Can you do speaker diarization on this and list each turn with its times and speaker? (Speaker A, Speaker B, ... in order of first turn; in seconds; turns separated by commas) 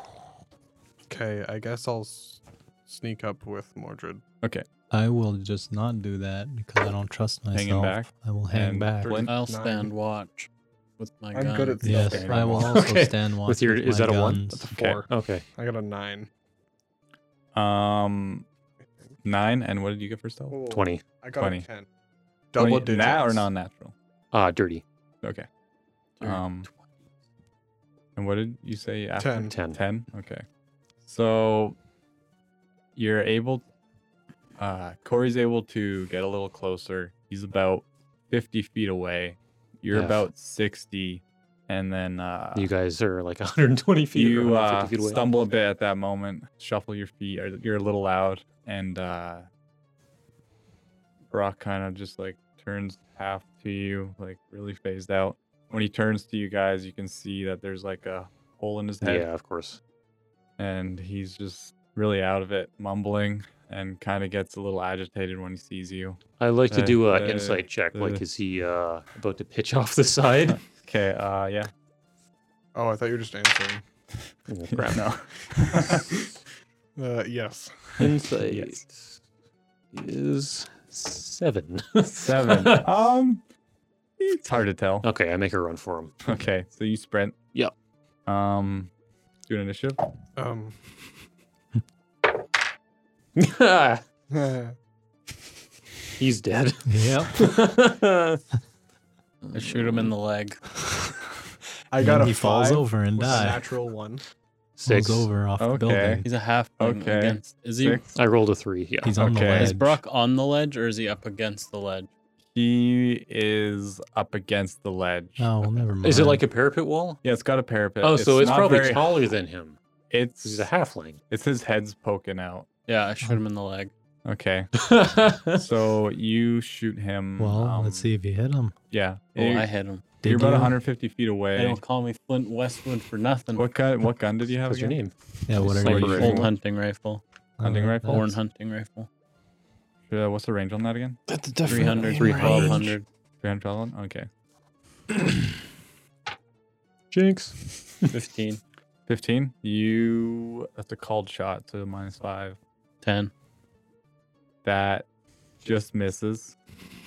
Speaker A: 1.1-4.2, Speaker B: 4.9-9.2, Speaker C: 7.5-9.3, Speaker A: 9.0-9.9, Speaker D: 9.2-12.1, Speaker A: 11.3-12.7, Speaker B: 11.8-14.7, Speaker C: 12.1-12.7, Speaker E: 12.6-15.4, Speaker C: 14.7-15.0, Speaker A: 14.7-16.3, Speaker C: 17.5-18.4, Speaker A: 18.9-19.1, Speaker C: 19.2-20.6, Speaker A: 20.5-21.9, Speaker E: 20.7-21.0, Speaker C: 21.4-21.6, Speaker A: 22.5-23.5, Speaker C: 22.6-23.9, Speaker E: 24.3-24.8, Speaker C: 26.2-26.7, Speaker C: 28.1-30.4, Speaker A: 29.2-29.5, Speaker E: 29.5-29.8, Speaker C: 31.0-31.8, Speaker C: 33.0-33.6, Speaker C: 34.6-42.7, Speaker E: 39.9-40.2, Speaker E: 42.5-45.2, Speaker C: 44.1-49.5, Speaker C: 51.3-59.2, Speaker E: 59.0-59.8, Speaker C: 60.6-66.2, Speaker E: 66.4-70.6, Speaker C: 66.7-68.2, Speaker C: 70.5-71.7, Speaker A: 72.7-73.8, Speaker E: 74.5-75.0, Speaker C: 74.7-76.1, Speaker A: 77.0-78.1, Speaker E: 78.0-79.2, Speaker C: 78.5-78.8, Speaker E: 79.9-82.8, Speaker C: 82.1-83.4, Speaker C: 84.2-85.1, Speaker E: 85.0-86.2, Speaker C: 86.2-87.3, Speaker C: 88.2-88.9, Speaker C: 89.5-90.0, Speaker A: 90.3-90.8, Speaker E: 93.3-94.0, Speaker A: 94.3-94.8, Speaker E: 96.2-98.4, Speaker B: 96.9-97.3, Speaker D: 99.5-100.6, Speaker E: 99.5-100.1, Speaker A: 101.9-104.2, Speaker B: 102.0-103.6, Speaker E: 104.8-105.3, Speaker B: 104.8-106.3, Speaker C: 105.6-106.2, Speaker D: 106.2-108.1, Speaker C: 106.8-108.0, Speaker E: 108.1-109.2, Speaker B: 109.0-110.0, Speaker C: 109.2-109.7, Speaker D: 109.5-112.1, Speaker C: 112.5-115.8, Speaker B: 115.4-116.4, Speaker E: 116.0-117.2, Speaker C: 117.2-119.2, Speaker E: 118.0-119.8, Speaker C: 120.1-120.7, Speaker E: 120.4-121.2, Speaker C: 121.3-122.7, Speaker D: 122.9-123.9, Speaker C: 124.2-124.7, Speaker E: 124.9-125.5, Speaker C: 125.5-128.1, Speaker B: 127.4-128.7, Speaker C: 128.9-131.8, Speaker D: 129.3-130.1, Speaker B: 130.2-130.8, Speaker D: 131.5-133.7, Speaker C: 133.5-135.0, Speaker E: 134.7-136.4, Speaker B: 135.5-136.4, Speaker D: 135.6-137.2, Speaker C: 135.7-136.5, Speaker B: 137.6-138.3, Speaker C: 137.6-138.2, Speaker D: 138.0-139.1, Speaker C: 140.1-142.9, Speaker B: 141.3-142.8, Speaker D: 141.6-143.1, Speaker E: 142.0-142.8, Speaker C: 143.4-144.3, Speaker E: 147.1-148.1, Speaker D: 148.1-148.6, Speaker C: 149.1-152.6, Speaker D: 153.0-153.3, Speaker C: 154.6-155.1, Speaker C: 155.6-156.5